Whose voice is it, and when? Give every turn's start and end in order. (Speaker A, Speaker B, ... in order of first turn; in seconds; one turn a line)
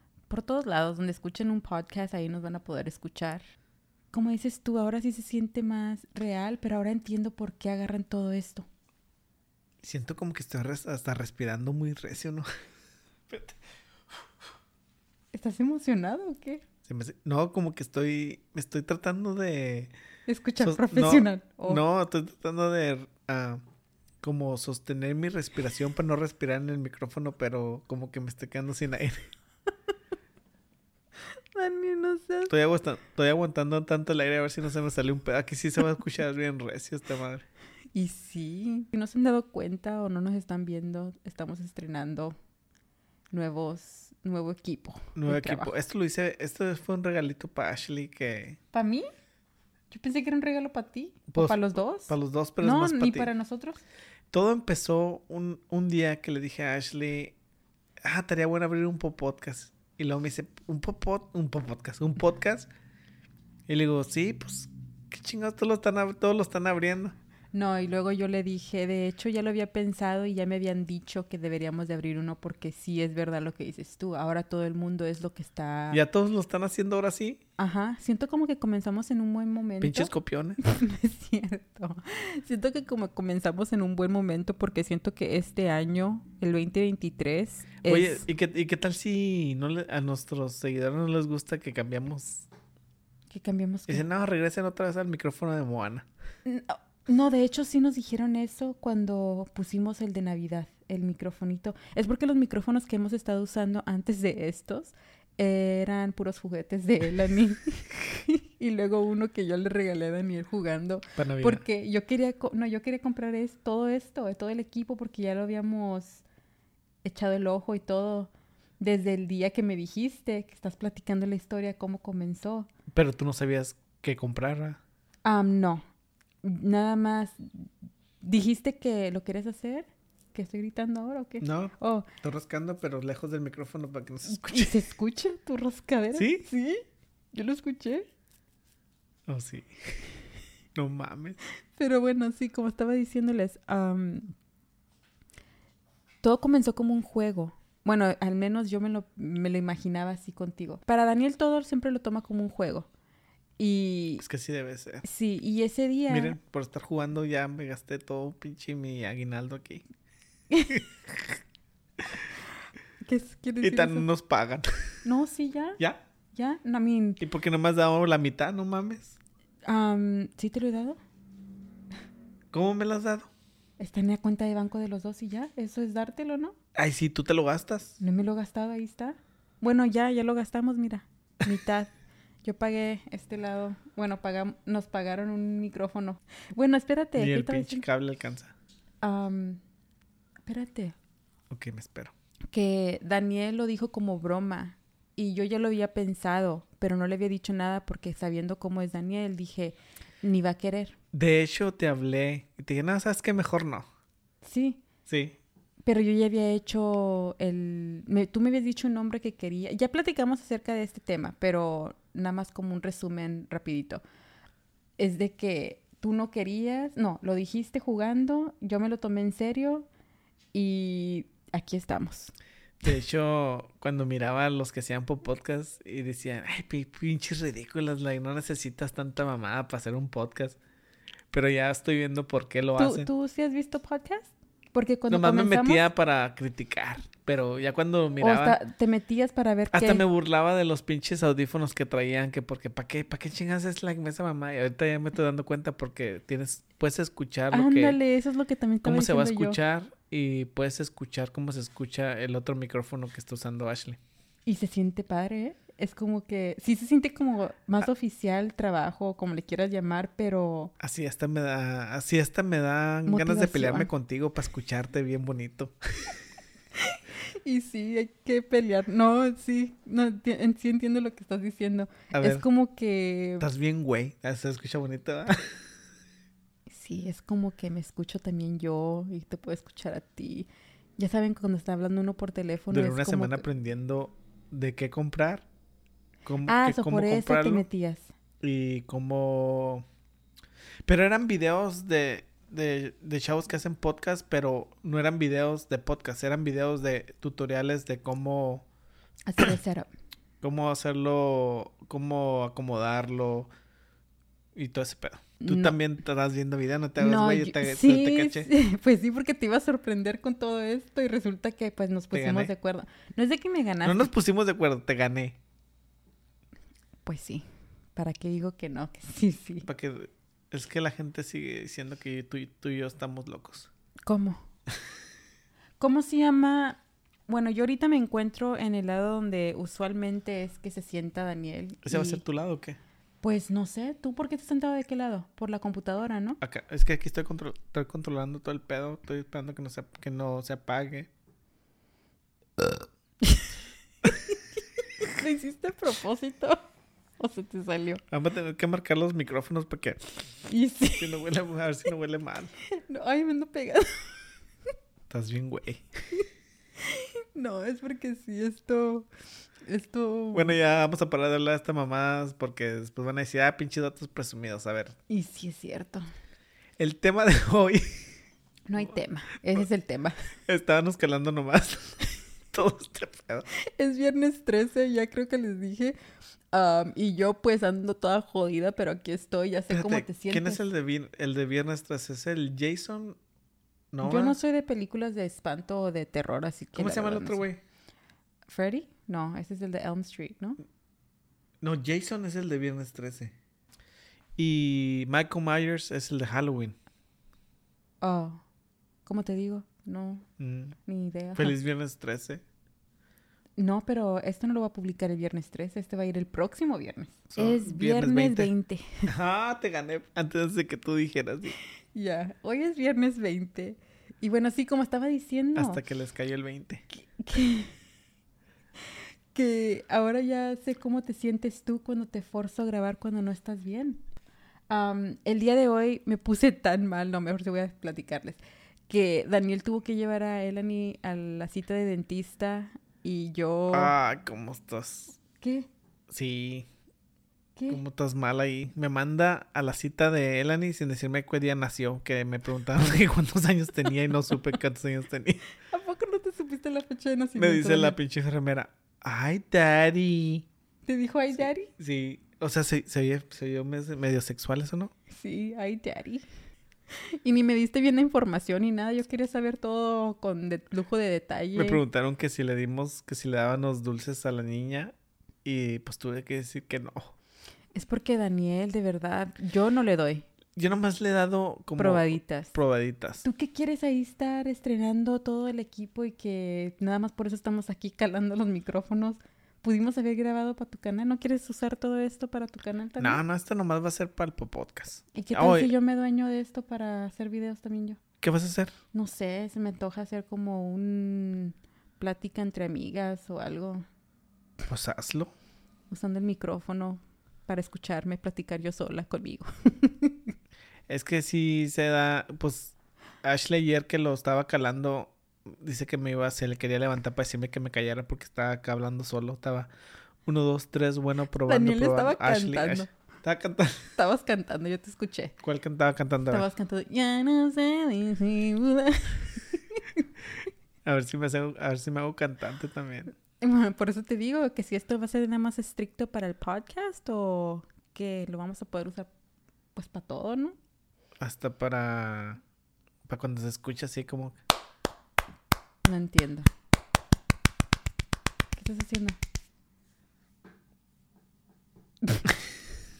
Speaker A: 0.3-3.4
Speaker A: 4.1-8.7
Speaker B: 9.8-12.5
Speaker B: 13.3-13.6
Speaker A: 15.3-16.6
Speaker B: 16.9-19.9
Speaker A: 20.3-21.8
Speaker B: 20.6-23.6
Speaker B: 24.2-29.3
Speaker A: 31.3-32.5
Speaker B: 32.5-37.5
Speaker A: 37.9-42.4
Speaker A: 43.3-45.7
Speaker B: 45.1-48.6
Speaker A: 48.7-49.1
Speaker A: 49.9-53.8
Speaker B: 51.3-53.3
Speaker B: 54.3-57.4
Speaker B: 58.0-62.7
Speaker B: 63.7-67.2
Speaker A: 67.5-76.0
Speaker B: 75.9-77.4
Speaker A: 77.6-88.2
Speaker B: 79.8-80.6
Speaker B: 87.8-92.5
Speaker A: 93.3-94.0
Speaker B: 93.9-96.1
Speaker A: 96.5-116.2
Speaker B: 111.2-111.6
Speaker A: 117.0-122.7
Speaker B: 122.9-124.8
Speaker A: 125.2-125.8
Speaker A: 126.4-127.7
Speaker A: 128.2-132.1
Speaker B: 131.4-134.8
Speaker A: 134.3-138.1
Speaker B: 136.1-136.5
Speaker B: 139.3-140.0
Speaker B: 140.8-141.4
Speaker A: 141.8-144.3
Speaker A: 146.2-152.9
Speaker A: 153.6-154.2
Speaker B: 154.2-155.1
Speaker A: 155.0-156.4
Speaker B: 156.1-159.8
Speaker B: 160.7-161.4
Speaker A: 163.0-164.1
Speaker B: 163.6-165.0
Speaker A: 165.0-165.8
Speaker A: 166.3-167.2
Speaker B: 167.2-169.2
Speaker A: 169.6-171.0
Speaker B: 172.5-173.3
Speaker A: 173.8-176.6
Speaker B: 176.8-178.0
Speaker A: 178.0-181.9
Speaker A: 182.4-187.8
Speaker B: 187.2-188.5
Speaker A: 189.0-189.6
Speaker A: 190.4-191.0
Speaker B: 191.5-192.1
Speaker A: 192.5-201.0
Speaker B: 201.1-203.8
Speaker A: 204.4-204.8
Speaker B: 205.1-205.4
Speaker A: 205.8-214.0
Speaker A: 215.0-219.9
Speaker A: 220.5-222.3
Speaker B: 222.8-230.6
Speaker B: 231.3-233.1
Speaker A: 232.8-235.8
Speaker B: 235.1-238.6
Speaker A: 238.2-240.0
Speaker B: 239.7-248.0
Speaker A: 247.5-249.6
Speaker B: 248.8-254.0
Speaker A: 254.5-260.7
Speaker B: 260.8-266.1
Speaker A: 263.1-263.9
Speaker A: 266.7-273.4
Speaker B: 272.1-272.4
Speaker B: 273.4-275.5
Speaker A: 276.7-283.4
Speaker B: 282.7-285.5
Speaker B: 286.2-287.6
Speaker A: 286.5-288.1
Speaker B: 288.4-289.8
Speaker B: 290.9-298.6
Speaker A: 299.3-299.9
Speaker B: 300.4-303.5
Speaker B: 304.6-308.5
Speaker A: 305.4-305.8
Speaker A: 307.0-314.1
Speaker B: 312.1-312.5
Speaker B: 313.8-315.4
Speaker A: 317.1-317.4
Speaker A: 317.9-319.7
Speaker B: 319.6-323.7
Speaker A: 324.0-324.4
Speaker A: 325.8-332.2
Speaker B: 331.9-332.8
Speaker A: 333.2-336.4
Speaker B: 336.4-341.1
Speaker A: 343.2-343.5
Speaker A: 345.0-346.6
Speaker A: 347.2-348.0
Speaker B: 348.1-350.2
Speaker A: 350.4-351.2
Speaker B: 350.9-352.5
Speaker A: 352.6-354.2
Speaker B: 355.1-355.9
Speaker A: 356.8-359.1
Speaker A: 359.6-360.6
Speaker B: 360.3-365.0
Speaker A: 365.1-366.1
Speaker B: 366.8-368.1
Speaker A: 368.7-370.1
Speaker B: 370.5-373.5
Speaker A: 373.8-376.0
Speaker A: 376.5-380.6
Speaker B: 379.7-383.2
Speaker B: 383.9-384.4
Speaker A: 384.0-387.4
Speaker B: 386.8-387.6
Speaker A: 388.5-390.6
Speaker B: 391.6-393.3
Speaker B: 394.4-396.8
Speaker A: 398.0-398.4
Speaker A: 399.1-400.2
Speaker B: 400.4-400.8
Speaker A: 400.9-401.6
Speaker B: 401.4-402.4
Speaker A: 403.6-409.1
Speaker B: 407.3-408.5
Speaker B: 409.1-411.6
Speaker A: 411.9-415.8
Speaker B: 415.6-416.8
Speaker A: 416.9-417.7
Speaker A: 418.8-424.0
Speaker A: 424.7-433.9
Speaker B: 433.7-435.2
Speaker A: 435.4-435.7
Speaker B: 436.1-436.7
Speaker A: 437.6-437.8
Speaker B: 437.7-445.4
Speaker A: 445.6-448.0
Speaker B: 447.4-450.5
Speaker A: 450.9-451.7
Speaker B: 451.4-454.9
Speaker A: 455.1-456.3
Speaker A: 456.9-461.8
Speaker B: 461.6-464.9
Speaker B: 465.4-467.1
Speaker A: 467.7-470.3
Speaker B: 470.6-473.2
Speaker A: 471.8-472.6
Speaker A: 473.2-483.2
Speaker B: 483.0-485.7
Speaker A: 485.1-488.0
Speaker B: 488.2-488.8
Speaker A: 488.9-493.9
Speaker B: 494.7-495.3
Speaker A: 495.9-500.3
Speaker B: 500.9-509.7
Speaker B: 510.2-513.9
Speaker A: 511.4-512.9
Speaker A: 514.0-515.4
Speaker B: 515.4-516.5
Speaker A: 516.3-520.0
Speaker B: 520.9-523.1
Speaker A: 523.4-529.1
Speaker A: 529.8-530.6
Speaker B: 531.2-532.4
Speaker B: 533.1-534.4
Speaker A: 535.8-536.5
Speaker A: 538.5-539.2
Speaker A: 542.0-542.3